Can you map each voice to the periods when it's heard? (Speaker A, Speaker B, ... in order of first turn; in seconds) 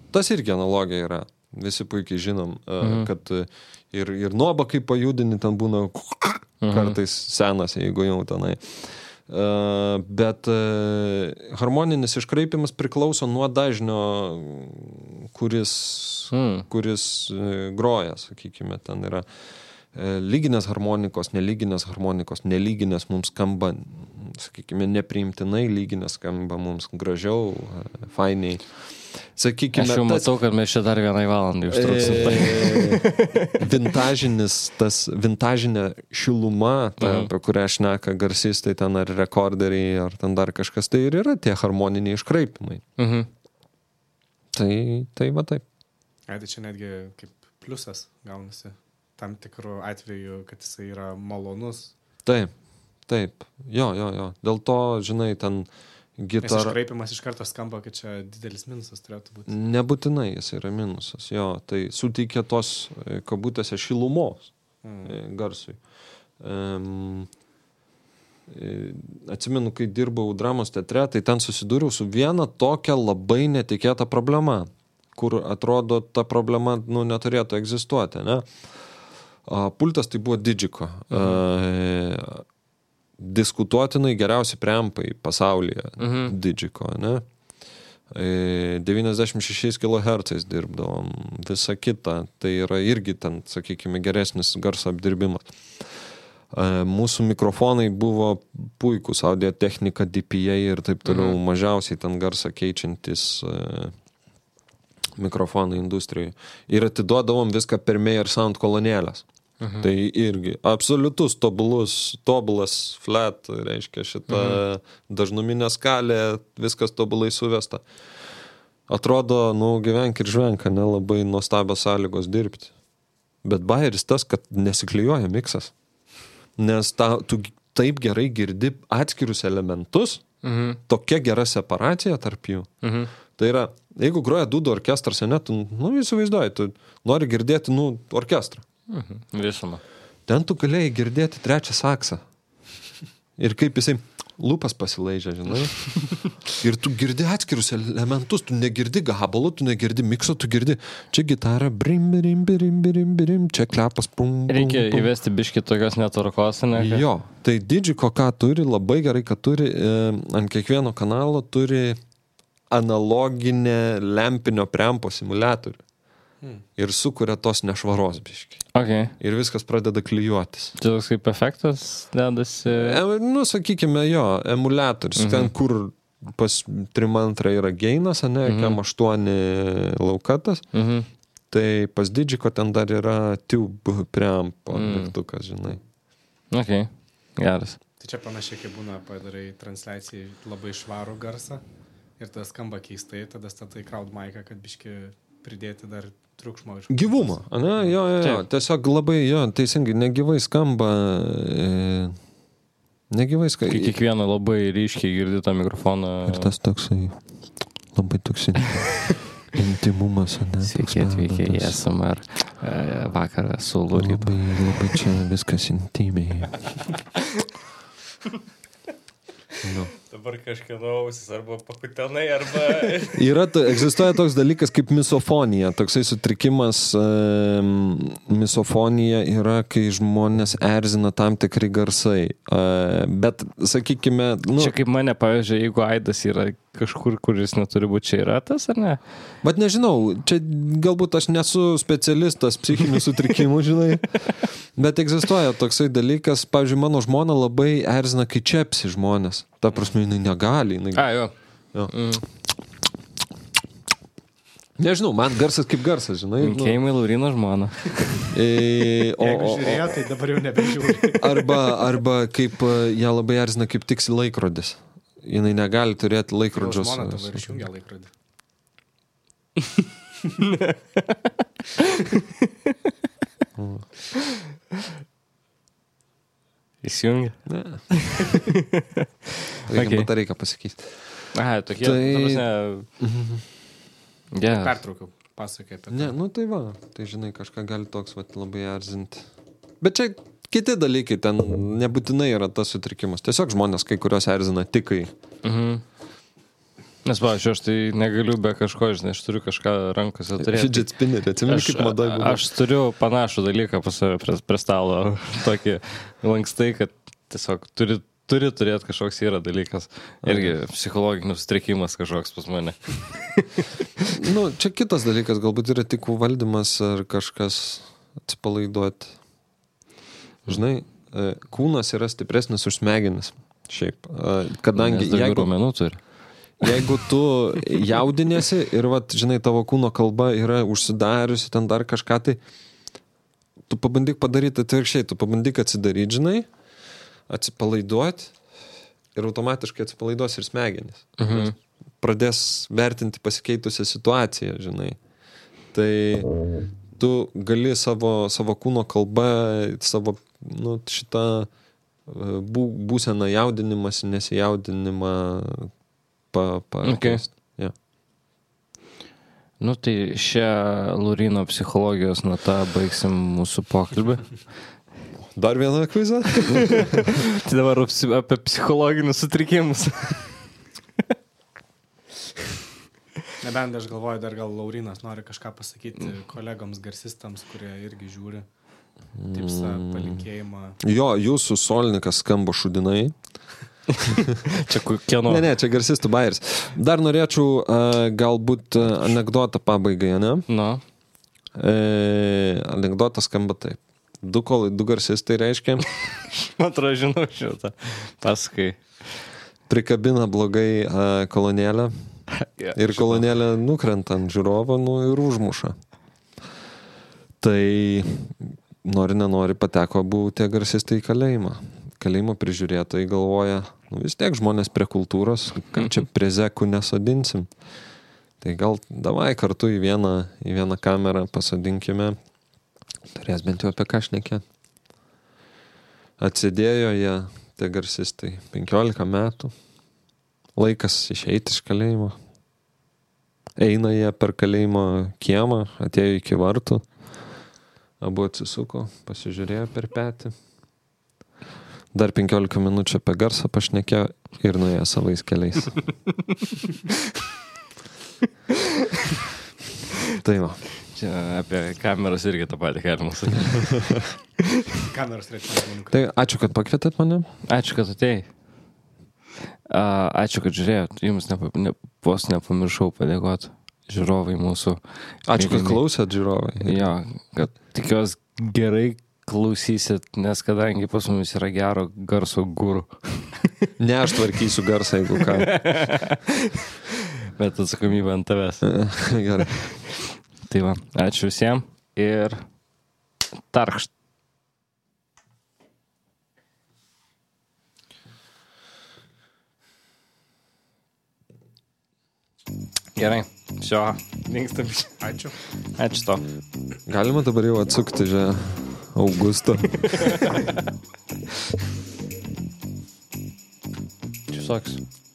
Speaker A: 0.1-19.2, 19.9-30.3, 31.7-42.8, 44.5-45.6, 52.2-52.5, 53.0-56.8, 59.5-64.5, 65.0-65.8, 66.4-67.3, 68.5-78.6, 79.4-82.4, 83.2-87.2, 88.1-95.9, 96.5-103.9, 105.2-109.2, 109.8-117.8, 118.9-122.7, 123.4-125.7, 126.6-130.2, 130.8-132.7, 133.3-138.6, 140.3-142.2, 143.4-155.1, 156.7-162.0, 162.7-165.8, 166.8-168.7, 169.2-170.8, 172.7-180.7, 181.5-185.8, 196.9-202.2, 203.1-203.9, 206.2-207.2, 207.9-211.8, 213.9-216.6, 219.6-219.9, 223.1-234.7, 239.4-251.2, 254.8-256.8, 258.3-260.0, 261.2-267.6, 273.6-273.9, 277.4-277.9, 279.7-282.5, 283.0-283.4, 285.9-289.3, 289.8-295.1, 300.4-302.4, 310.2-310.5, 314.1-319.2, 320.4-325.5, 326.6-332.4, 333.7-336.5, 337.3-338.4, 339.1-345.0, 345.7-346.3, 346.9-351.5, 352.1-355.7, 356.3-357.7, 365.4-367.1, 379.1-380.3, 380.8-383.1, 385.2-390.5, 391.6-396.0, 399.7-401.9, 402.7-405.8, 407.4-417.5, 418.4-422.2, 423.1-424.4, 426.2-429.5, 430.6-432.2, 433.6-436.9, 438.0-440.3, 441.9-445.8, 450.1-450.6, 455.9-457.3, 465.2-466.9, 473.8-475.6, 478.6-479.6, 496.9-500.2
Speaker B: 2.8-3.1, 6.6-7.0, 16.3-16.7, 29.7-33.7, 37.0-37.3, 43.0-43.3, 81.1-81.4, 86.0-86.3, 101.0-101.4, 109.6-109.9, 114.3-114.6, 130.4-130.8, 132.8-133.1, 138.9-139.8, 154.5-157.0, 168.7-169.1, 170.8-173.0, 175.2-175.5, 178.4-178.8, 180.7-181.1, 184.7-185.1, 186.5-187.8, 203.7-206.5, 210.6-215.0, 220.0-223.3, 234.6-239.0, 250.9-251.3, 251.9-252.2, 256.4-258.2, 270.4-272.7, 276.8-280.1, 281.3-282.9, 284.3-284.8, 295.4-295.8, 297.0-300.9, 301.4-314.1, 324.8-326.0, 341.2-341.5, 356.8-357.2, 359.6-364.4, 366.9-370.4, 384.3-385.4, 390.5-390.8, 396.3-399.1, 402.3-403.2, 450.9-453.9, 457.4-458.3, 459.7-465.8, 466.6-473.5, 475.1-478.7, 480.4-482.4, 483.5-483.9, 492.9-495.0, 495.7-496.2, 500.0-500.5, 504.3-504.8
Speaker C: 46.3-51.9, 56.4-59.5, 64.8-65.1, 188.0-191.6, 192.2-197.9, 259.2-261.5, 266.6-268.1, 284.5-286.1, 373.4-378.4, 379.3-380.8, 454.8-455.9, 495.0-495.4